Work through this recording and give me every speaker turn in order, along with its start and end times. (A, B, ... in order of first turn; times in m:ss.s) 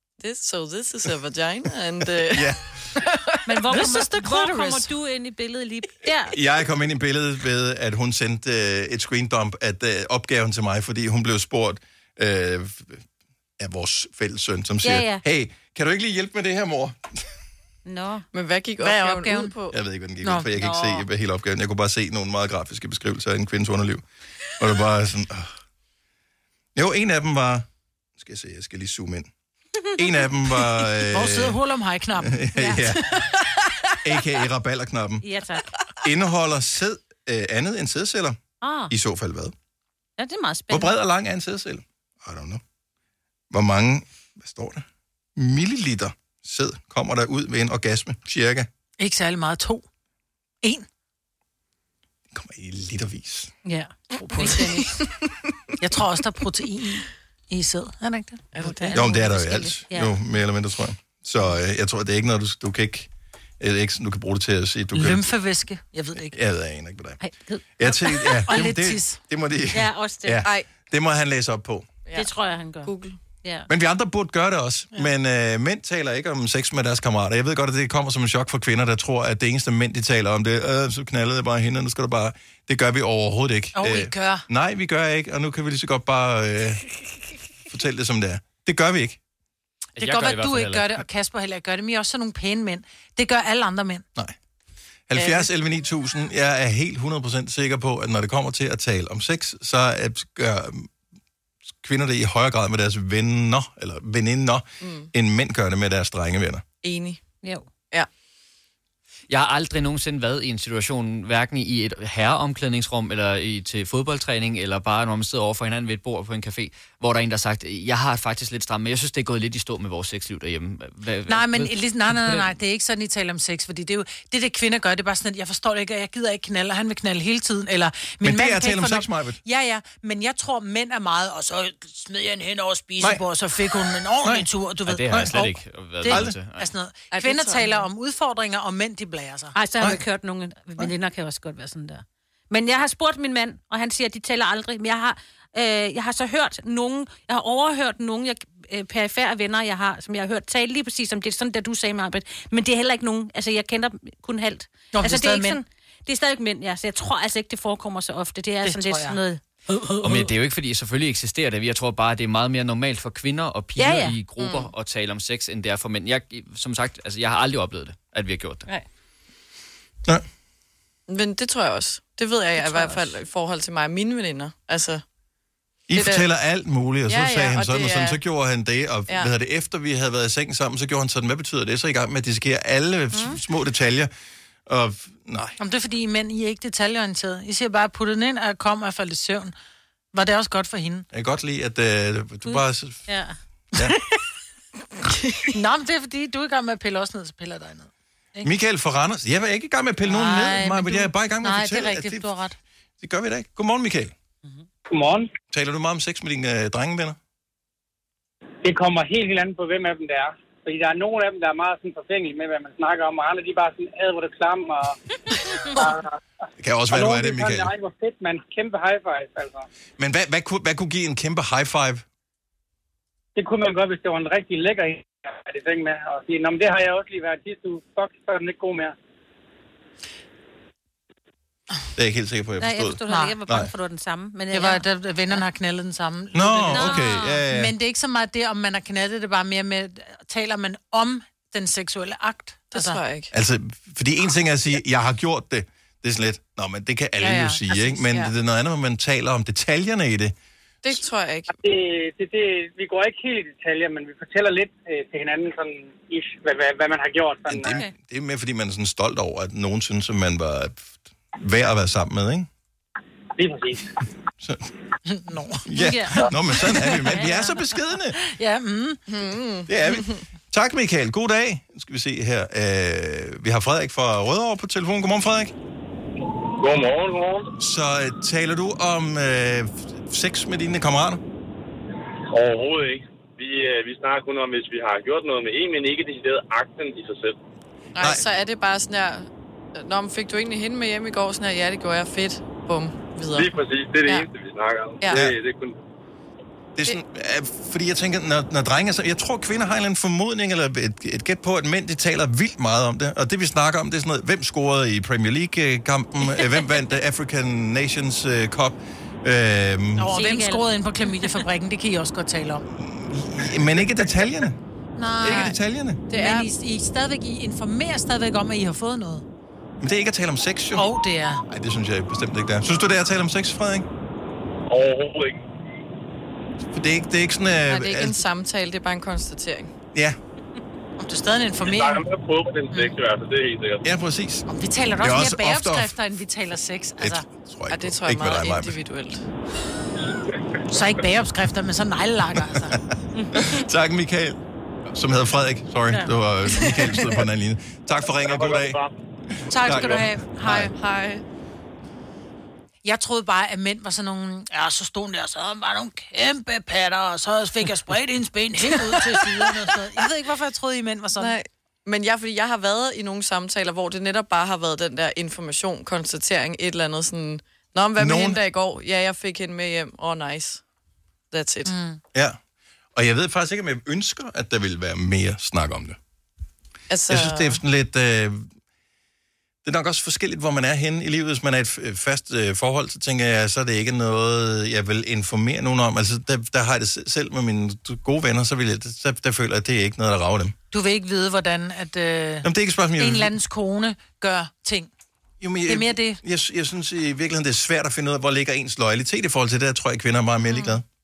0:00.2-0:03.3 A
0:02.3-0:02.7 B
0:03.5-0:04.9 C
0:03.5-0:06.4 D
0:06.3-0:13.0 B
0:13.6-0:17.0 B
0:14.8-0:15.2 D
0:17.9-0:18.2 D
0:18.3-0:19.8 A
0:18.8-0:19.5 C
0:19.7-0:24.0 B
0:20.5-0:21.0 D
0:24.6-0:25.5 B
0:26.8-0:29.3 B
0:30.0-0:31.6 B
0:31.1-0:33.6 C
0:32.2-0:33.0 B
0:32.6-0:32.9 D
0:34.0-0:35.3 B
0:35.2-0:35.6 D
0:36.0-0:39.6 B
0:38.6-0:38.9 D
0:40.2-0:40.9 D
0:40.7-0:42.6 B
0:43.5-0:44.8 B
0:45.4-0:48.7 B
0:49.0-0:49.9 C
0:52.3-0:53.5 B
0:53.6-0:54.9 D
0:54.2-0:54.9 C
0:54.4-0:55.0 A
0:55.8-0:58.9 C
0:58.5-0:59.0 A
0:58.8-1:00.2 D
0:58.9-1:03.1 B
1:03.6-1:05.2 B
1:04.9-1:06.4 C
1:06.3-1:07.2 B
1:07.2-1:08.5 D
1:07.8-1:11.9 B
1:08.5-1:09.2 C
1:09.7-1:10.4 D
1:12.1-1:13.2 A
1:12.2-1:12.9 D
1:13.4-1:13.7 D
1:13.7-1:26.8 B
1:23.8-1:24.5 C
1:27.7-1:29.2 B
1:30.0-1:31.0 E
1:30.0-1:34.0 C
1:35.1-1:40.9 B
1:35.2-1:35.4 C
1:41.8-1:46.6 B
1:44.8-1:45.1 A
1:46.8-1:47.2 A
1:49.3-2:02.5 E
2:01.3-2:15.4 C
2:08.2-2:09.4 B
2:14.9-2:16.7 E
2:15.1-2:16.4 B
2:16.0-2:19.6 C
2:17.1-2:17.9 A
2:19.6-2:39.4 D
2:34.9-2:35.6 C
2:38.6-2:39.2 C
2:40.0-2:48.7 E
2:43.8-2:44.2 D
2:44.4-2:44.7 A
2:51.1-2:55.0 A
2:55.9-3:04.1 B
2:55.9-2:56.3 A
2:57.1-2:58.2 A
3:03.1-3:03.4 D
3:04.7-3:05.6 B
3:05.6-3:09.5 C
3:10.1-3:11.1 C
3:11.1-3:13.1 B
3:13.1-3:13.4 D
3:15.0-3:15.5 A
3:15.5-3:18.5 C
3:18.4-3:22.3 B
3:20.0-3:22.6 C
3:23.0-3:24.1 B
3:24.9-3:25.3 F
3:25.5-3:27.2 B
3:28.6-3:35.0 F
3:35.8-3:36.2 F
3:36.6-3:37.7 B
3:36.9-3:39.7 F
3:40.0-3:42.0 B
3:43.4-3:49.0 F
3:52.0-3:53.7 B
3:52.6-3:54.8 D
3:53.1-3:53.4 C
3:54.5-4:03.0 C
3:56.3-3:57.8 B
3:56.7-3:57.5 D
4:02.7-4:03.3 A
4:03.3-4:10.4 B
4:07.2-4:08.0 C
4:08.1-4:08.3 A
4:10.8-4:11.6 A
4:11.6-4:17.8 F
4:17.5-4:22.5 B
4:23.4-4:23.9 F
4:24.4-4:24.7 B
4:25.0-4:25.7 C
4:25.6-4:28.2 B
4:25.8-4:26.3 D
4:26.3-4:27.4 C
4:27.1-4:27.6 D
4:28.2-4:29.0 C
4:29.1-4:30.2 A
4:29.7-4:35.5 B
4:36.6-4:37.5 G
4:37.6-4:41.2 B
4:42.3-4:47.4 G
4:48.0-4:54.3 A
4:53.3-4:55.8 G
4:55.0-4:55.3 A
4:55.1-4:55.4 B
4:56.8-5:10.1 B
5:10.0-5:12.6 C
5:10.1-5:10.7 D
5:12.7-5:14.6 B
5:15.0-5:15.5 C
5:15.2-5:16.0 B
5:15.2-5:15.6 A
5:16.1-5:16.5 A
5:16.1-5:19.2 C
5:19.8-5:20.9 B
5:20.8-5:21.4 C
5:21.5-5:23.9 B
5:24.7-5:25.4 G
5:26.7-5:28.2 B
5:27.7-5:29.7 A
5:31.0-5:32.0 C
5:31.7-5:33.8 G
5:32.7-5:33.0 C
5:33.8-5:34.5 B
5:34.5-5:37.2 C
5:35.0-5:36.0 B
5:37.0-5:38.8 B
5:37.7-5:39.2 A
5:40.7-5:42.8 C
5:42.5-5:42.8 B
5:43.2-5:43.5 D
5:43.3-5:48.8 B
5:48.2-5:48.9 G
5:49.5-5:50.7 C
5:49.5-5:50.7 B
5:50.5-5:51.2 A
5:52.8-6:01.4 C
5:58.8-5:59.3 A
6:01.2-6:10.6 A
6:08.0-6:08.4 B
6:11.3-6:11.8 A
6:11.7-6:12.0 C
6:13.0-6:16.0 B
6:16.9-6:17.6 A
6:17.1-6:18.5 B
6:19.6-6:30.6 B
6:30.7-6:34.9 C
6:32.4-6:33.3 B
6:35.4-6:40.8 B
6:35.7-6:36.2 C